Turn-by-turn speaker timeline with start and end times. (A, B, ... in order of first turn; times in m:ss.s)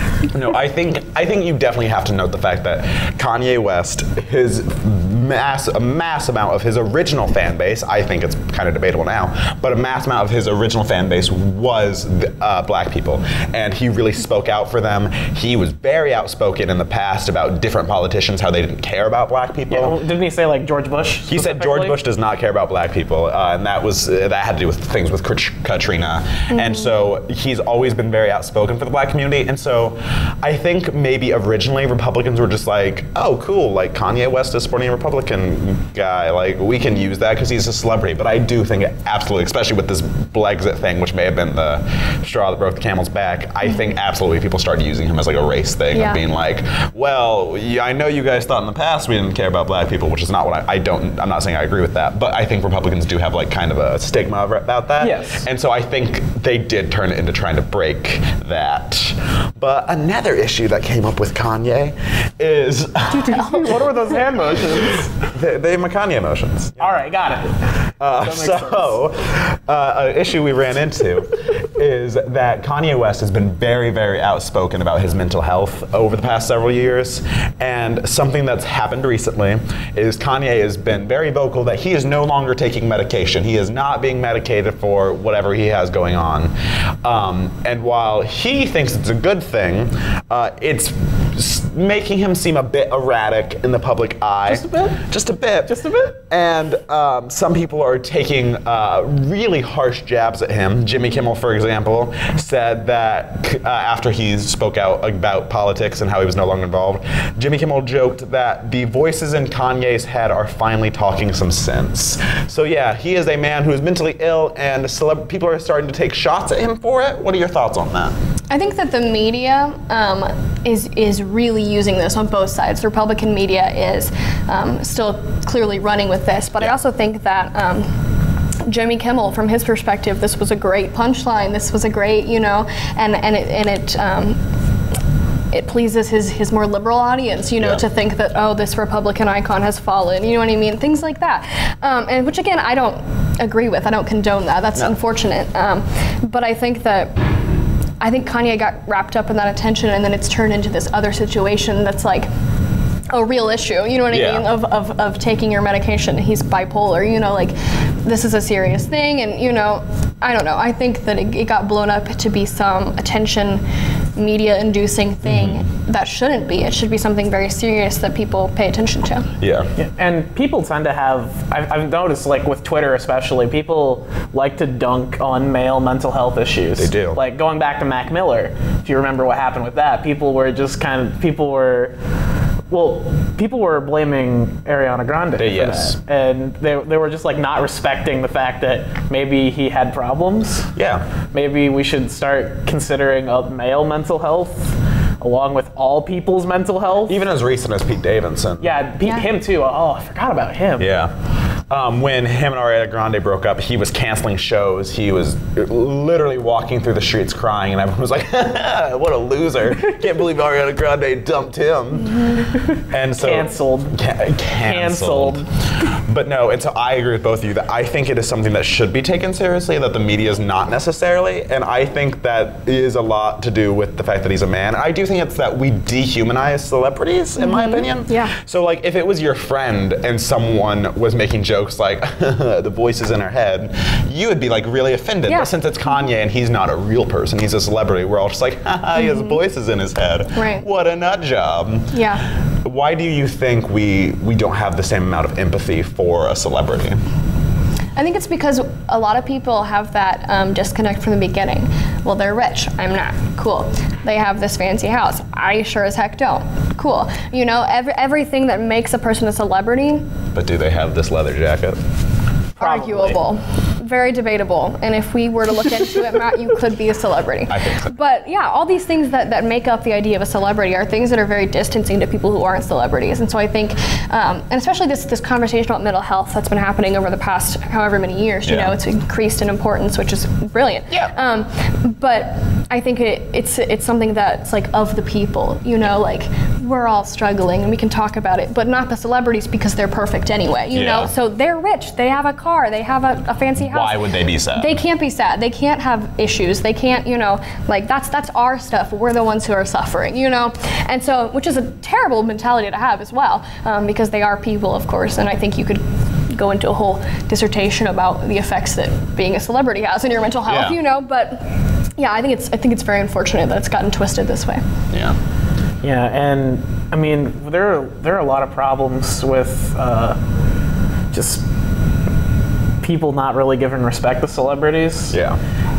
0:00.2-0:20.0 A
0:19.7-0:22.0 B
0:21.3-1:03.8 A
0:45.9-0:46.2 C
0:55.0-0:55.5 B
1:03.2-1:03.8 C
1:03.3-1:05.1 B
1:04.8-1:07.0 A
1:06.8-1:09.0 B
1:08.0-1:26.5 A
1:27.0-1:58.1 A
1:34.5-1:35.0 B
1:35.7-1:36.2 B
1:58.5-2:07.9 C
2:08.7-2:14.4 C
2:15.5-2:27.2 C
2:28.0-2:32.3 C
2:33.1-2:43.6 C
2:34.1-2:34.5 A
2:44.2-2:49.3 C
2:45.2-2:45.6 A
2:49.4-2:49.7 A
2:49.8-3:02.0 B
2:56.8-2:57.2 A
3:02.7-3:10.7 B
3:05.4-3:05.9 A
3:10.8-3:11.1 A
3:11.3-3:17.2 B
3:17.1-3:18.8 A
3:18.6-3:20.9 B
3:19.0-3:19.3 C
3:20.8-3:21.1 A
3:21.7-4:02.0 A
3:32.6-3:34.0 B
3:34.6-3:35.4 B
3:47.4-3:48.3 C
3:59.0-3:59.4 C
4:00.4-4:00.7 C
4:01.9-4:02.2 C
4:02.6-4:07.0 A
4:08.0-4:20.0 C
4:20.4-4:21.8 A
4:22.6-4:54.0 C
4:22.6-4:23.2 B
4:27.5-4:28.0 A
4:38.5-4:38.8 A
4:50.7-4:51.1 A
4:53.6-4:54.8 A
4:54.6-5:14.6 C
5:10.5-5:10.8 A
5:14.9-5:15.2 A
5:15.8-5:20.2 B
5:21.1-5:21.4 B
5:22.8-5:25.2 B
5:25.1-5:25.4 A